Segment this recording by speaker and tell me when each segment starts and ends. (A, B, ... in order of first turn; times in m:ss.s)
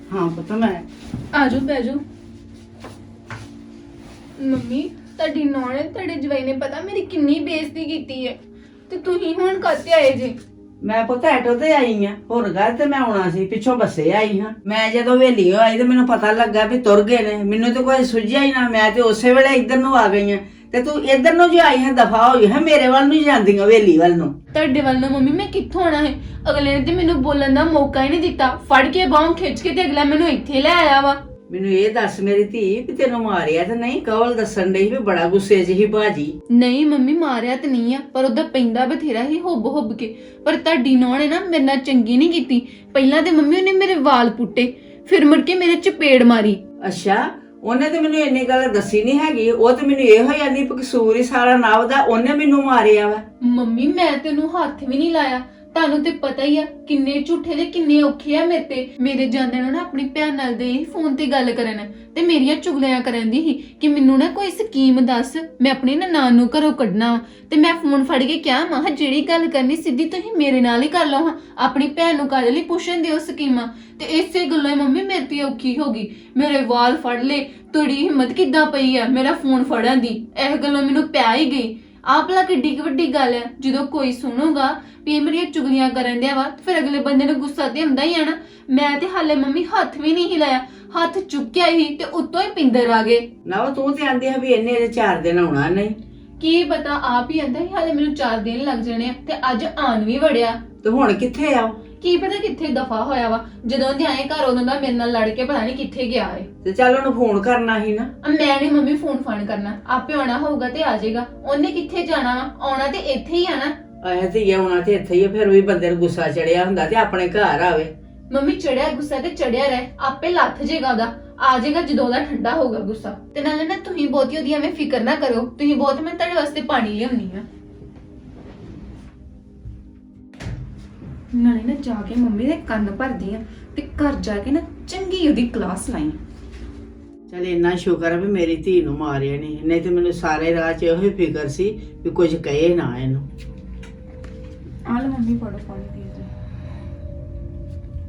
0:00.1-0:00.8 A
0:01.3-0:02.0 B
0:04.4-0:08.4 B
0:08.9-0:10.4 B
0:10.8-0:24.3 A
0:24.5-0:31.2 B
0:31.5-0:36.3 A
0:36.5-0:46.6 B
0:46.8-0:53.2 A
0:53.4-1:33.3 B
1:33.4-1:36.0 A
1:36.4-1:40.6 B
1:40.8-1:41.7 A
1:42.0-1:46.5 B
1:46.6-1:48.1 A
1:48.2-1:53.8 B
1:54.0-1:57.9 A
1:58.3-2:07.4 B
2:11.3-2:16.2 B
2:17.3-2:23.2 A
2:24.8-2:26.3 B